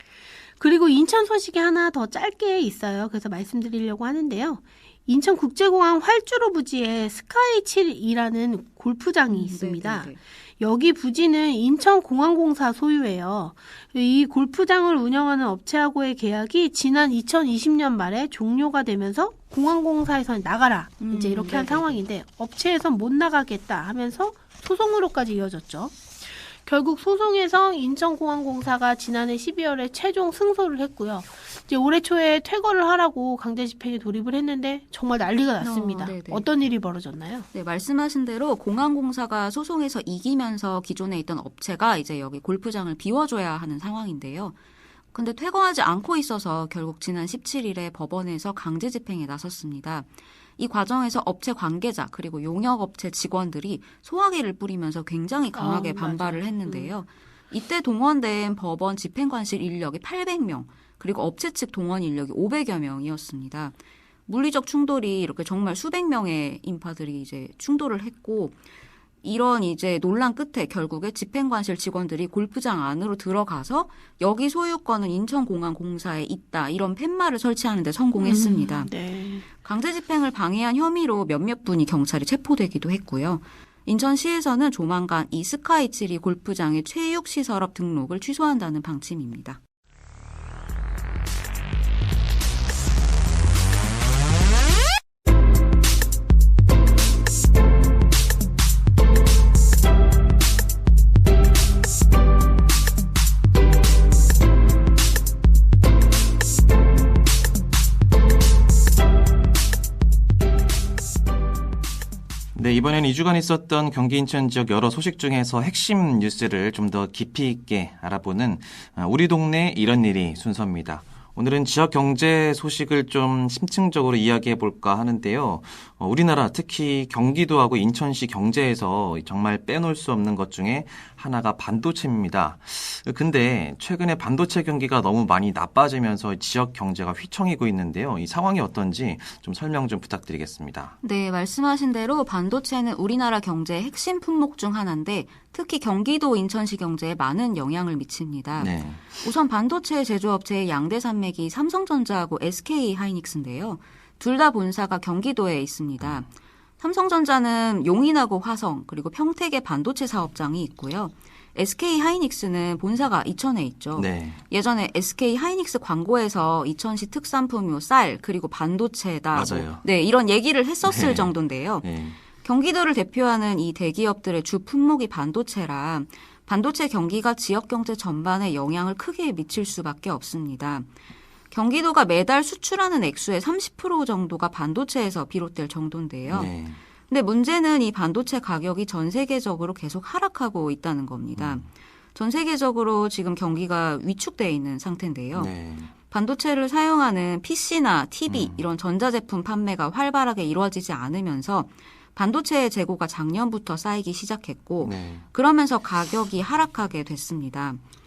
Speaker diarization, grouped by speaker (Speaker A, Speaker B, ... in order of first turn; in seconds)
Speaker A: 0.6-37.5, 55.5-56.9, 78.2-79.5
Speaker B: 9.3-10.2, 21.0-22.0, 35.6-36.5, 37.5-44.5, 45.1-50.1, 50.6-63.7, 64.3-68.6, 69.2-78.9, 79.6-89.6, 141.0-156.3, 156.8-171.9, 172.4-180.9, 181.5-186.5, 187.1-195.5, 196.1-207.8
Speaker C: 112.5-140.9, 148.6-149.2, 164.0-164.4, 169.3-169.8, 170.8-172.2, 186.3-186.8, 191.4-191.7, 195.3-195.9, 198.3-198.7, 204.8-205.2